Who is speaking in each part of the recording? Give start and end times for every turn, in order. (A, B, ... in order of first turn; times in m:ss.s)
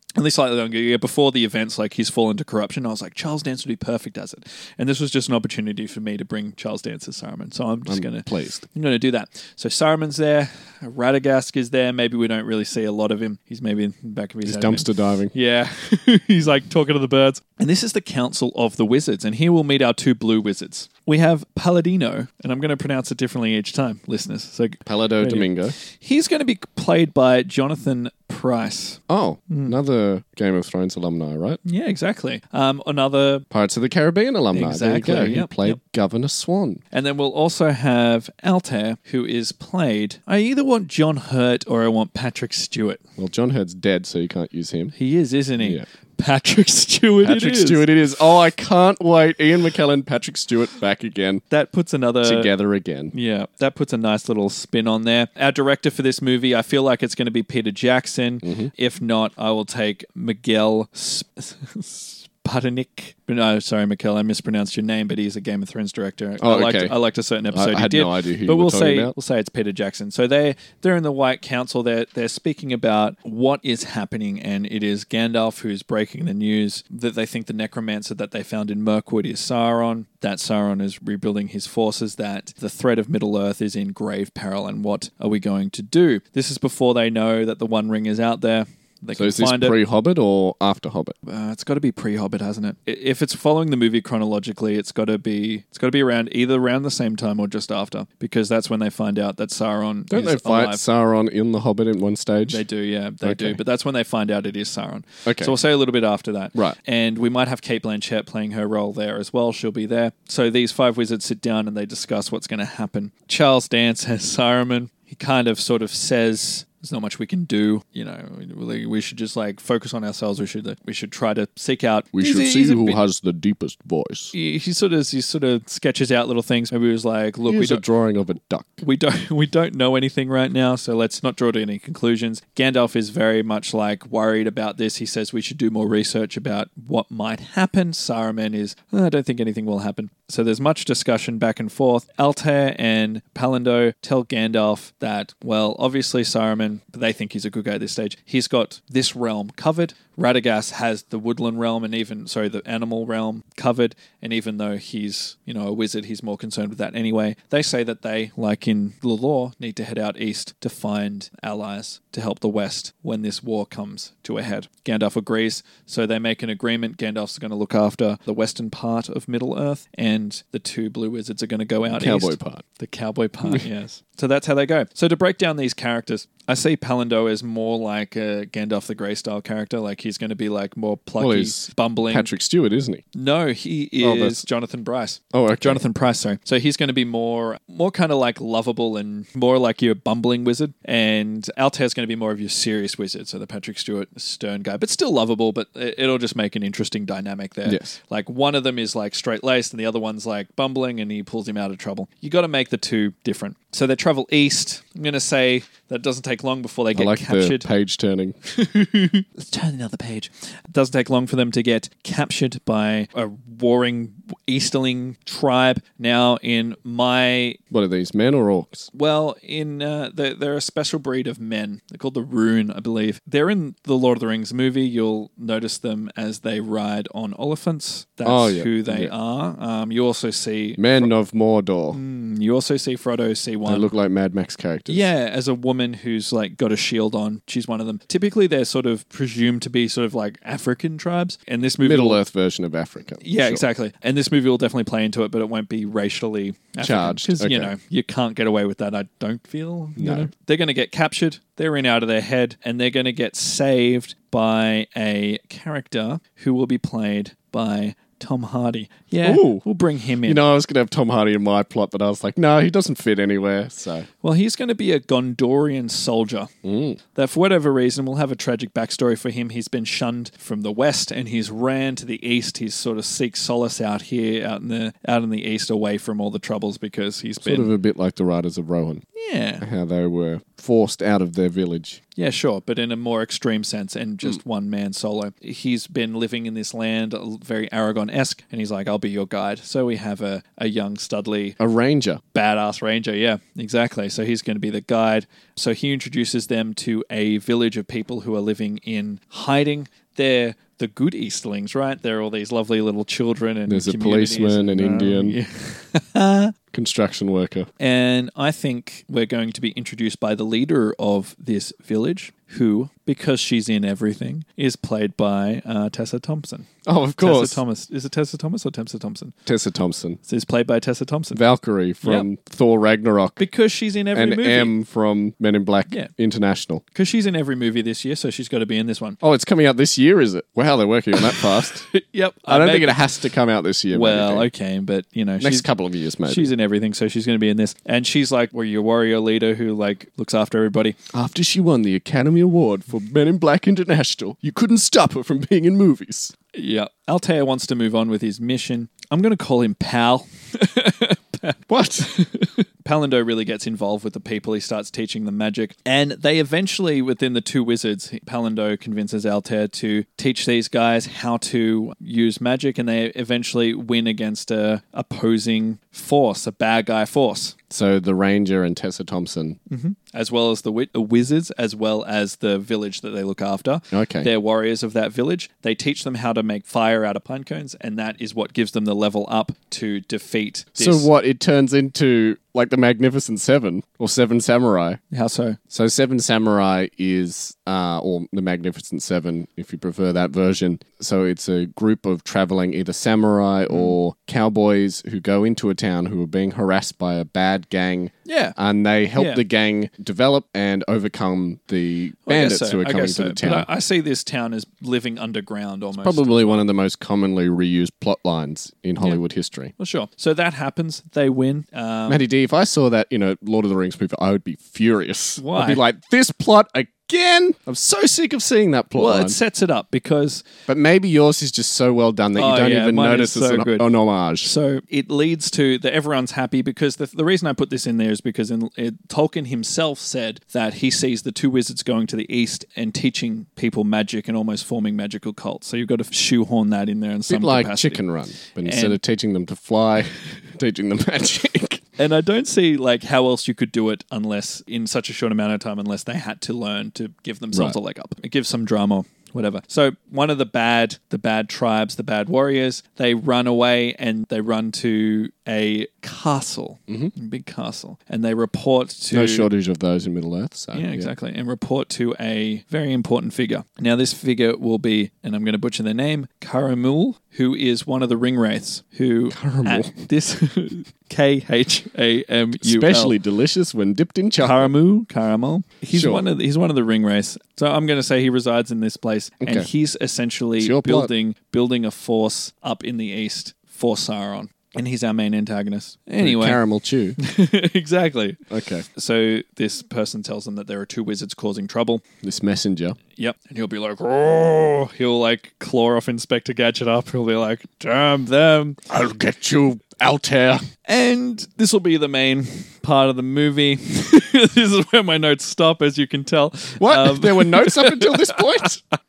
0:00.2-0:29.7 A
0:07.8-0:08.6 B
0:14.4-0:15.3 B
0:24.8-0:25.7 B
0:29.1-0:31.6 B
0:31.6-0:33.4 A
0:33.5-0:36.8 B
0:34.5-0:35.8 A
0:36.9-0:43.0 A
0:43.2-0:44.9 B
0:44.9-0:47.8 A
0:45.6-0:45.8 B
0:47.2-0:51.4 B
0:51.5-0:52.5 A
0:52.2-0:53.1 B
0:53.1-1:29.8 A
0:58.4-0:58.7 B
1:06.4-1:06.9 B
1:07.5-1:09.1 B
1:29.1-1:31.2 B
1:31.2-1:40.8 A
1:40.1-1:42.6 B
1:42.5-2:03.0 A
1:43.2-1:43.6 B
1:45.2-1:45.5 B
2:02.1-2:04.3 B
2:04.3-2:07.8 A
2:07.5-2:08.8 B
2:08.8-3:02.3 A
2:51.9-2:52.6 B
3:01.2-3:03.0 B
3:03.1-3:27.7 A
3:04.0-3:04.4 B
3:05.3-3:05.8 B
3:17.6-3:17.9 B
3:26.9-3:28.4 B
3:28.5-3:37.6 A
3:37.7-3:38.9 B
3:38.9-3:50.8 A
3:48.2-3:49.1 B
3:50.8-3:52.0 B
3:51.9-3:53.9 A
3:53.6-3:55.1 B
3:54.9-4:02.2 A
4:01.8-4:03.6 B
4:03.2-4:20.4 A
4:06.8-4:07.7 B
4:10.0-4:10.3 B
4:19.2-4:19.6 B
4:20.2-4:24.1 B
4:24.2-4:26.5 A
4:26.6-4:27.0 B
4:27.1-4:37.7 A
4:37.4-4:39.0 B
4:39.2-4:39.6 A
4:39.6-4:42.0 B
4:42.2-4:51.6 A
4:51.6-4:52.2 B
4:52.3-5:06.5 A
5:03.7-5:05.4 B
5:06.7-5:07.7 B
5:07.8-5:19.3 A
5:16.8-5:17.6 B
5:19.4-5:20.2 B
5:20.2-5:21.4 A
5:21.3-5:23.4 B
5:23.4-5:24.7 A
5:24.1-5:26.8 B
5:26.9-5:29.2 A
5:29.2-5:31.8 B
5:31.2-5:33.0 A
5:32.5-5:34.5 B
5:33.9-5:35.7 A
5:35.4-5:36.5 B
5:36.2-5:41.0 A
5:41.1-5:46.3 B
5:46.5-6:07.6 A
5:51.7-5:52.1 B
6:07.7-6:09.6 B
6:09.7-6:21.1 A
6:13.9-6:14.3 B
6:20.8-6:25.0 B
6:25.1-6:25.6 A
6:25.7-6:43.7 B
6:33.7-6:34.0 A
6:38.2-6:38.6 A
6:39.1-6:39.4 A
6:42.2-6:46.6 A
6:46.0-6:49.7 B
6:49.8-6:52.2 A
6:52.1-6:59.4 B
6:55.4-6:55.8 A
6:58.9-7:00.4 A
7:00.7-7:04.5 B
7:02.4-7:03.9 A
7:04.4-7:18.0 A
7:17.3-7:21.8 B
7:18.6-7:19.0 A
7:22.0-7:39.5 A
7:27.5-7:27.8 B
7:39.1-7:41.1 B
7:40.7-7:53.2 A
7:49.3-7:50.0 B
7:52.6-7:54.7 B
7:54.4-8:06.6 A
7:55.9-7:56.3 B
7:59.4-7:59.7 B
8:00.6-8:01.1 B
8:06.2-8:07.2 B
8:07.2-8:08.4 A
8:08.5-8:08.8 B
8:08.9-8:12.0 A
8:12.2-8:13.0 B
8:13.2-8:18.8 A
8:18.9-8:20.6 B
8:20.8-8:28.7 A
8:26.8-8:28.8 B